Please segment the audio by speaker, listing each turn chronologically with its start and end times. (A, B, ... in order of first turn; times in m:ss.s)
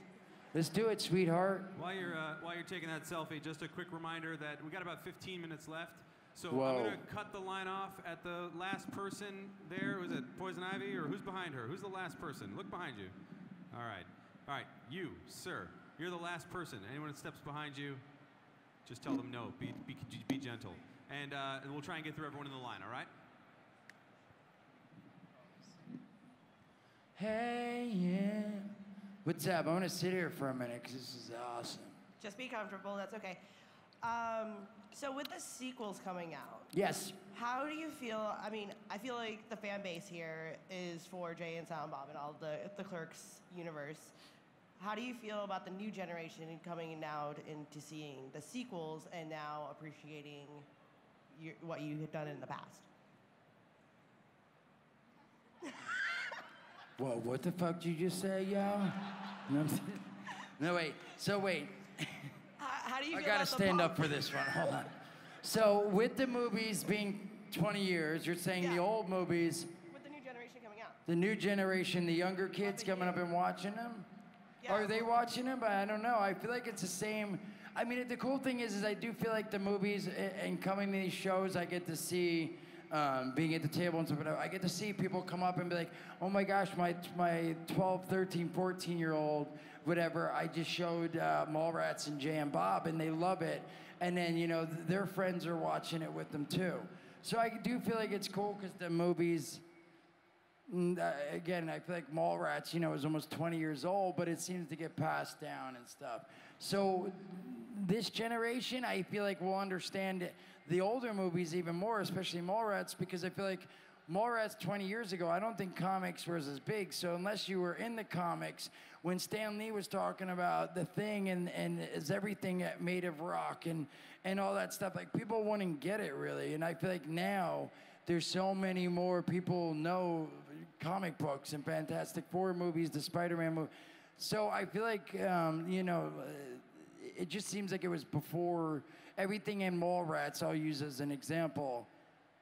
0:00.5-0:01.8 A
0:01.7-0:13.2 B
0:06.5-0:07.0 A
0:13.7-0:18.0 B
0:18.9-0:23.1 B
0:27.2-0:32.0 A
0:32.2-0:33.4 C
0:34.0-0:36.7 C
0:36.7-0:37.2 A
0:37.3-0:44.1 C
0:44.8-0:50.7 C
0:51.3-0:52.9 C
0:57.0-1:02.3 A
1:02.6-1:04.8 C
1:03.1-1:04.9 A
1:05.4-1:09.7 A
1:08.6-1:08.8 C
1:09.9-1:11.0 C
1:11.1-1:14.1 A
1:12.6-1:13.2 C
1:14.6-1:15.1 C
1:14.7-1:39.6 A
1:40.7-2:21.9 A